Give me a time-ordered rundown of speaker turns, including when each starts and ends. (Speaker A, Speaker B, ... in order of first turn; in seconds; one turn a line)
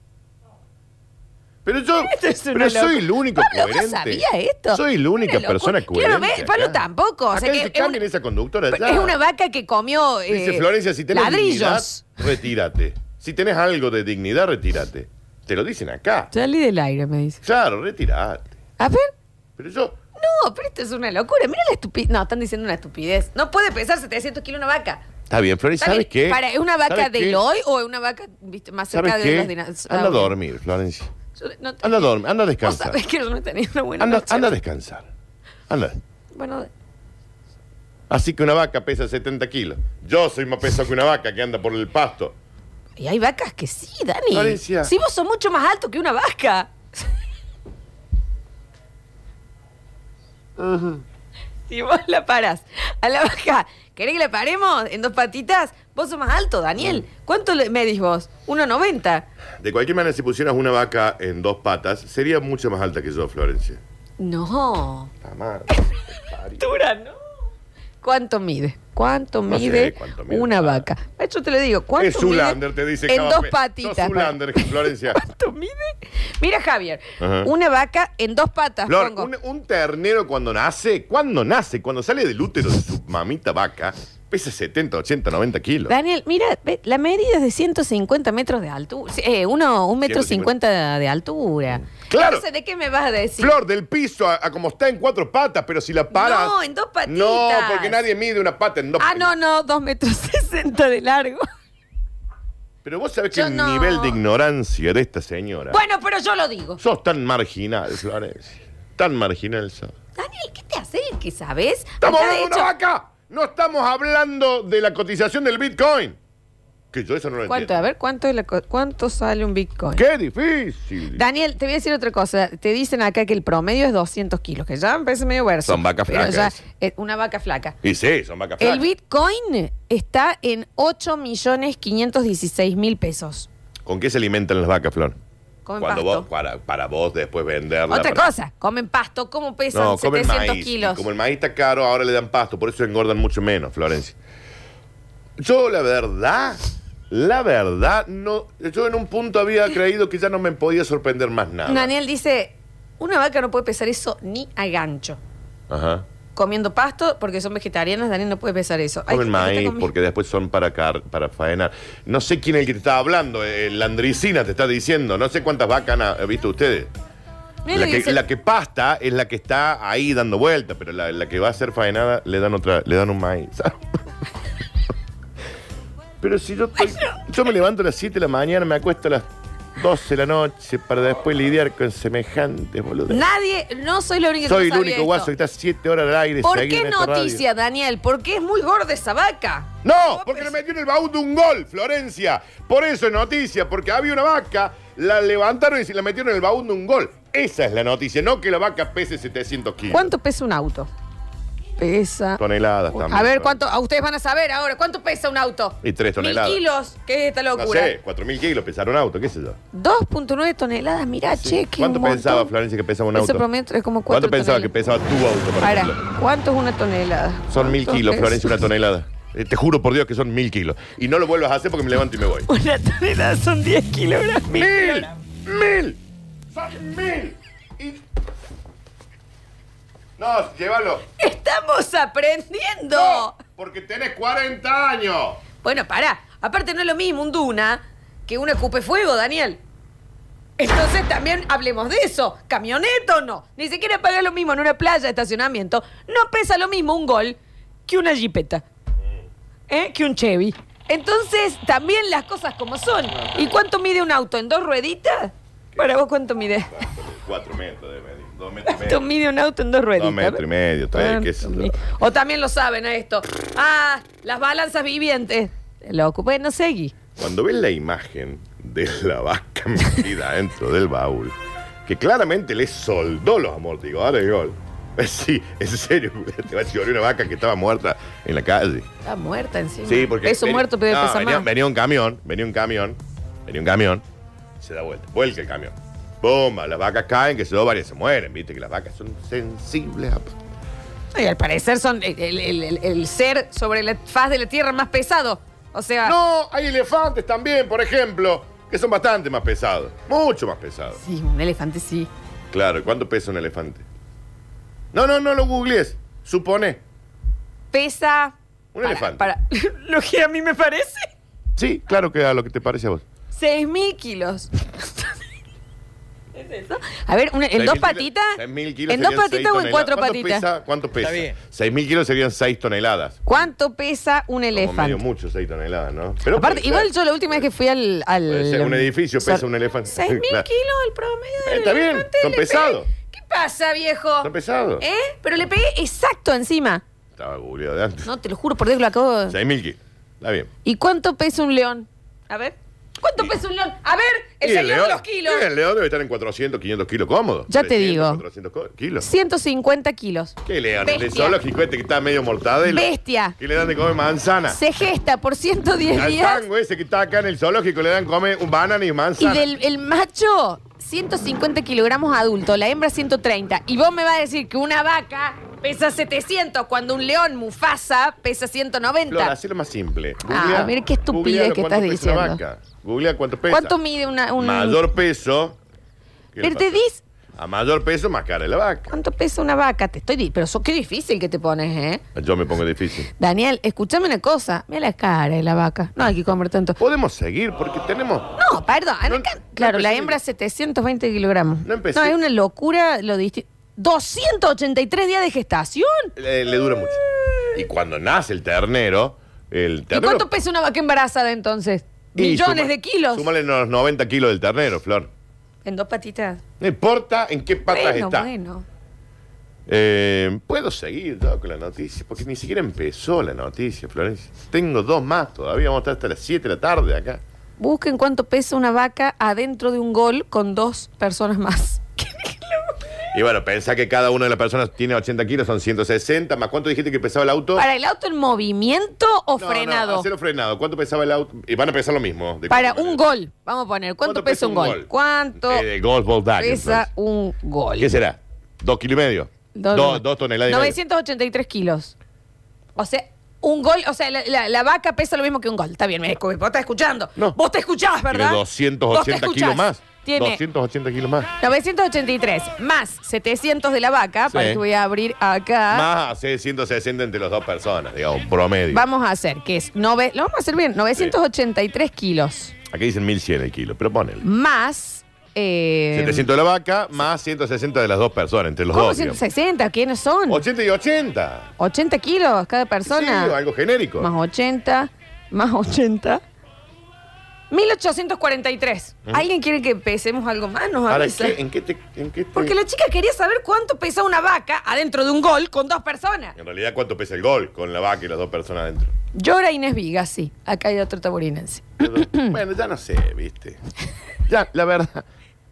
Speaker A: 1.6-6.8
Speaker B: 2.0-8.0
Speaker A: 7.3-9.2
Speaker B: 8.7-12.2
Speaker A: 10.3-16.3
Speaker B: 16.3-17.4
Speaker A: 17.4-18.5
Speaker B: 18.8-19.1
Speaker A: 19.6-20.0
Speaker B: 20.2-25.0
Speaker A: 25.3-27.4
Speaker B: 25.8-30.4
Speaker A: 28.9-31.1
Speaker B: 31.4-34.5
Speaker A: 31.8-33.0
Speaker A: 34.0-35.1
Speaker A: 35.7-36.0
Speaker B: 36.3-36.7
Speaker A: 38.1-42.4
Speaker B: 43.0-46.8
Speaker A: 44.3-44.9
Speaker A: 50.6-51.0
Speaker B: 51.7-59.3
Speaker A: 59.6-63.8
Speaker B: 64.2-65.1
Speaker A: 65.2-66.7
Speaker B: 65.7-66.0
Speaker B: 66.6-67.2
Speaker B: 68.0-79.3
Speaker A: 69.5-70.9
Speaker A: 72.0-75.2
Speaker A: 77.2-77.5
Speaker A: 78.9-85.9
Speaker B: 85.9-93.6
Speaker A: 90.0-90.5
Speaker A: 91.9-92.5
Speaker A: 93.4-96.5
Speaker B: 96.1-98.0
Speaker A: 97.1-99.3
Speaker B: 99.0-101.5
Speaker A: 102.8-105.8
Speaker B: 103.3-104.2
Speaker B: 105.7-106.8
Speaker A: 106.8-109.9
Speaker B: 110.2-112.7
Speaker A: 112.0-116.2
Speaker A: 116.9-117.8
Speaker B: 117.5-120.0
Speaker A: 119.9-121.2
Speaker B: 121.1-127.8
Speaker A: 125.7-126.6
Speaker A: 127.8-128.9
Speaker B: 128.6-133.5
Speaker A: 133.8-135.2
Speaker B: 135.7-136.3
Speaker A: 135.8-138.3
Speaker B: 137.9-141.1
Speaker A: 139.7-144.2
Speaker A: 145.4-151.9
Speaker B: 151.7-155.2
Speaker A: 155.7-156.1
Speaker B: 156.3-159.9
Speaker A: 159.1-166.9
Speaker B: 167.7-168.2
Speaker A: 167.7-173.9
Speaker A: 176.2-183.2
Speaker B: 176.8-177.2
Speaker B: 183.1-185.3
Speaker A: 184.4-187.4
Speaker B: 186.4-190.5
Speaker A: 189.8-200.1
Speaker B: 199.9-200.9
Speaker B: 201.8-207.9
Speaker A: 202.4-203.6
Speaker A: 205.8-206.6
Speaker A: 207.6-209.6
Speaker B: 209.7-212.5
Speaker A: 211.3-213.5
Speaker B: 213.2-214.7
Speaker A: 214.1-216.0
Speaker B: 215.6-218.6
Speaker A: 217.5-222.5
Speaker B: 222.5-225.1
Speaker A: 224.5-226.0
Speaker A: 226.5-228.0
Speaker A: 230.2-231.1
Speaker B: 231.2-233.4
Speaker A: 232.9-235.4
Speaker B: 235.6-239.6
Speaker B: 240.6-248.6
Speaker B: 249.7-256.9
Speaker A: 253.1-253.6
Speaker A: 256.7-259.1
Speaker B: 258.6-266.9
Speaker A: 260.0-261.8
Speaker A: 267.2-278.9
Speaker B: 279.1-281.5
Speaker A: 279.9-284.0
Speaker A: 284.6-290.4
Speaker B: 291.1-296.2
Speaker A: 296.1-301.0
Speaker B: 301.0-302.1
Speaker A: 302.5-303.9
Speaker A: 304.9-306.8
Speaker B: 307.7-311.1
Speaker A: 308.7-309.3
Speaker A: 311.6-313.0
Speaker B: 313.3-315.2
Speaker B: 316.3-320.5
Speaker A: 317.5-323.5
Speaker B: 323.3-325.0
Speaker A: 324.5-327.4
Speaker B: 326.3-336.8
Speaker A: 328.3-330.5
Speaker A: 331.4-332.9
Speaker A: 334.2-334.8
Speaker A: 337.2-338.1
Speaker B: 338.0-339.4
Speaker A: 339.3-340.5
Speaker B: 340.6-345.5
Speaker A: 344.4-349.1
Speaker B: 347.5-348.2
Speaker B: 349.0-351.4
Speaker A: 350.4-354.6
Speaker B: 352.7-353.4
Speaker B: 354.5-356.4
Speaker A: 355.9-359.5
Speaker B: 359.2-369.4
Speaker A: 369.1-373.8
Speaker B: 370.3-372.4
Speaker B: 373.5-374.9
Speaker A: 374.4-375.6
Speaker A: 376.3-376.8
Speaker B: 376.4-377.0
Speaker A: 377.4-379.0
Speaker B: 378.9-382.0
Speaker A: 382.1-383.1
Speaker B: 383.2-386.8
Speaker A: 386.8-388.3
Speaker B: 388.4-396.1
Speaker A: 389.1-390.2
Speaker A: 391.6-392.2
Speaker A: 396.2-397.0
Speaker A: 397.5-400.3
Speaker B: 399.9-403.3
Speaker A: 402.2-405.1
Speaker B: 405.6-406.4
Speaker A: 406.6-408.3
Speaker B: 407.7-408.6
Speaker A: 409.7-417.2
Speaker B: 417.6-422.8
Speaker A: 423.1-427.7
Speaker B: 427.6-430.1
Speaker A: 429.4-433.0
Speaker B: 432.5-435.7
Speaker A: 434.0-436.9
Speaker B: 436.4-437.9
Speaker A: 437.8-440.8
Speaker B: 439.6-441.9
Speaker B: 442.8-450.4
Speaker A: 448.1-451.3
Speaker B: 451.4-455.9
Speaker A: 454.3-454.6
Speaker A: 455.7-458.8
Speaker B: 458.7-462.6
Speaker A: 462.7-464.2
Speaker B: 464.2-466.3
Speaker A: 465.9-469.2
Speaker B: 468.7-470.4
Speaker A: 470.3-471.5
Speaker B: 471.6-473.4
Speaker A: 472.9-474.1
Speaker B: 474.0-476.2
Speaker B: 477.5-481.4
Speaker A: 480.9-482.6
Speaker B: 482.3-486.4
Speaker A: 486.4-488.9
Speaker B: 489.1-492.4
Speaker A: 491.8-493.6
Speaker A: 494.3-495.1